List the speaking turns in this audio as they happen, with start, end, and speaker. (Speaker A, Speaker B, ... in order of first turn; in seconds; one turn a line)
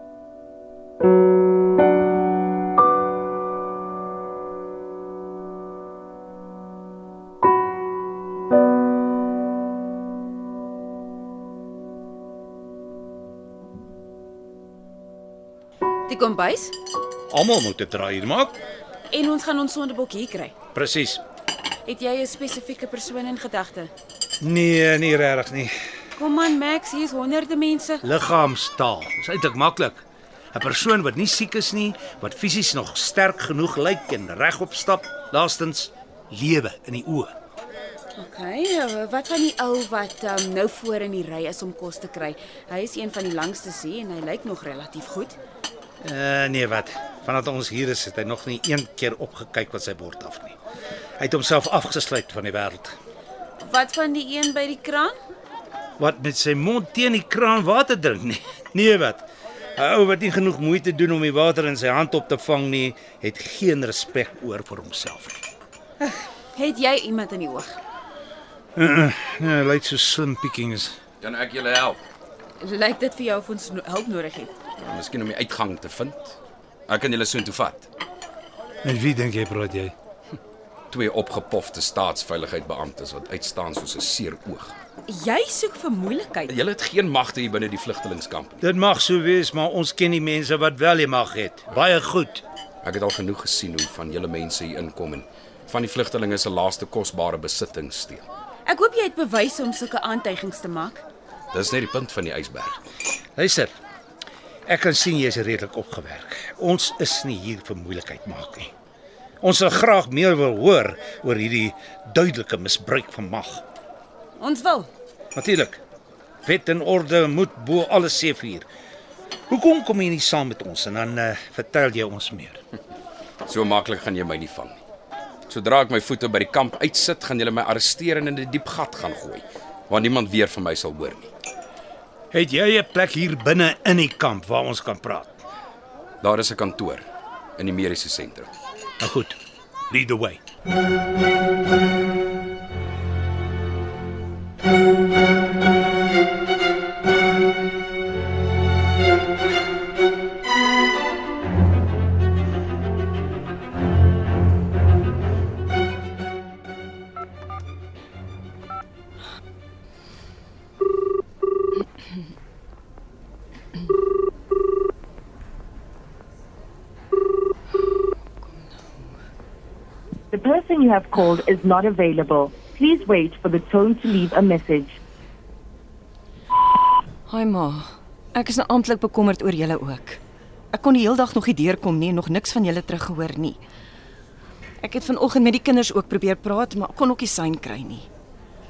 Speaker A: 16.1-16.8
Speaker B: 17.3-18.6
Speaker A: 19.1-20.5
Speaker B: 20.8-21.2
Speaker A: 21.9-23.9
Speaker B: 24.4-25.7
Speaker A: 26.2-28.0
Speaker B: 28.0-37.3
Speaker A: 38.2-45.4
Speaker B: 46.0-50.6
Speaker B: 51.2-53.0
Speaker A: 53.6-55.1
Speaker B: 56.0-59.2
Speaker B: 59.8-65.4
Speaker A: 66.1-67.8
Speaker B: 68.8-71.0
Speaker C: 71.2-72.0
Speaker A: 72.6-74.5
Speaker C: 74.8-76.4
Speaker C: 76.9-77.9
Speaker B: 78.8-79.9
Speaker C: 80.9-84.7
Speaker A: 85.1-86.5
Speaker C: 86.5-88.6
Speaker B: 88.6-92.4
Speaker C: 92.8-98.2
Speaker A: 98.7-101.0
Speaker C: 101.5-102.8
Speaker B: 103.4-103.7
Speaker B: 104.7-108.7
Speaker B: 109.4-113.6
Speaker A: 114.4-114.9
Speaker B: 115.3-115.8
Speaker B: 116.4-118.7
Speaker B: 119.5-122.6
Speaker C: 123.4-124.8
Speaker C: 125.5-131.3
Speaker B: 132.3-135.4
Speaker C: 136.2-137.0
Speaker C: 137.6-138.5
Speaker B: 139.0-139.3
Speaker B: 139.9-140.4
Speaker D: 168.4-168.9
Speaker E: 170.3-174.9
Speaker C: 171.1-171.4
Speaker D: 177.3-180.2
Speaker D: 180.7-183.6
Speaker D: 184.8-188.1